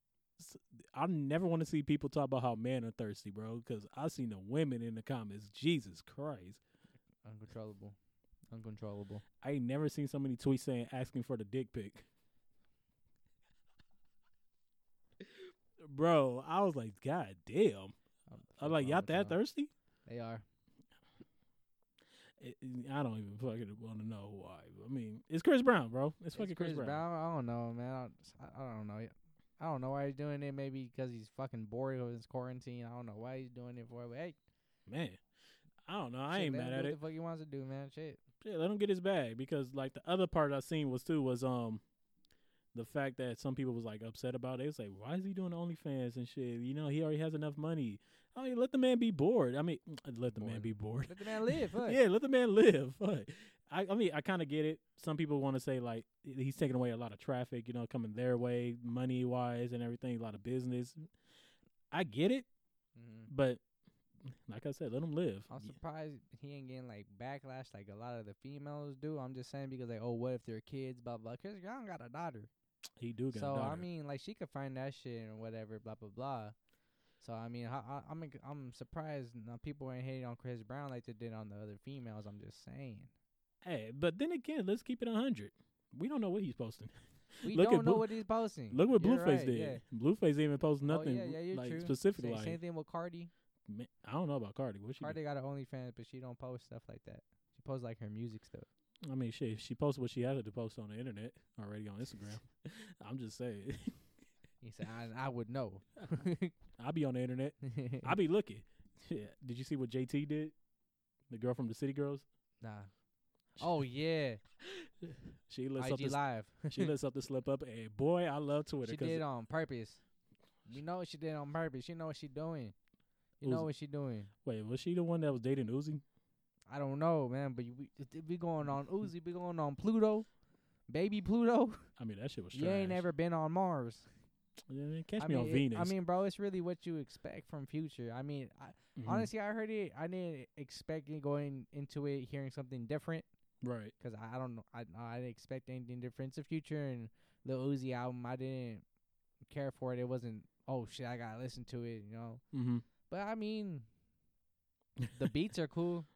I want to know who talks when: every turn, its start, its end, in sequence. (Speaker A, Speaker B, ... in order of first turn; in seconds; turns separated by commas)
Speaker A: 0.4-6.6, Speaker B: 7.2-8.0, Speaker B: 8.5-9.2, Speaker A: 9.4-12.1, Speaker A: 15.2-18.0, Speaker B: 18.3-19.4, Speaker A: 18.6-19.7, Speaker B: 20.1-20.4, Speaker A: 22.4-27.1, Speaker B: 26.3-34.4, Speaker A: 34.9-35.2, Speaker A: 35.9-37.0, Speaker B: 36.3-38.2, Speaker A: 38.4-41.8, Speaker A: 42.7-61.1, Speaker B: 50.3-52.0, Speaker A: 61.9-62.5, Speaker B: 63.0-63.3, Speaker A: 63.3-63.6, Speaker A: 64.2-65.8, Speaker B: 65.5-72.5, Speaker A: 73.0-73.9, Speaker B: 73.3-76.5, Speaker B: 77.2-83.1, Speaker A: 83.6-88.1, Speaker B: 87.5-89.8, Speaker A: 88.7-92.6, Speaker B: 90.9-93.3, Speaker A: 93.7-95.2, Speaker B: 95.0-98.7, Speaker A: 99.0-104.0, Speaker B: 104.6-106.5, Speaker A: 106.8-110.5, Speaker B: 107.6-108.1, Speaker A: 111.3-112.2, Speaker B: 112.6-112.9, Speaker B: 113.6-114.4, Speaker A: 114.6-119.2, Speaker B: 115.8-116.9, Speaker B: 118.8-120.0, Speaker B: 120.7-122.8, Speaker B: 123.4-124.3, Speaker A: 123.4-123.7, Speaker A: 124.4-126.0, Speaker B: 126.7-130.3, Speaker B: 130.9-131.9, Speaker A: 132.0-133.1, Speaker B: 132.5-134.1, Speaker A: 134.7-135.9, Speaker B: 135.2-143.3, Speaker A: 139.0-139.3, Speaker A: 143.6-143.9, Speaker B: 144.0-148.8, Speaker B: 149.5-152.4, Speaker A: 152.5-152.8, Speaker B: 153.1-153.9, Speaker A: 155.0-155.3, Speaker B: 155.1-156.1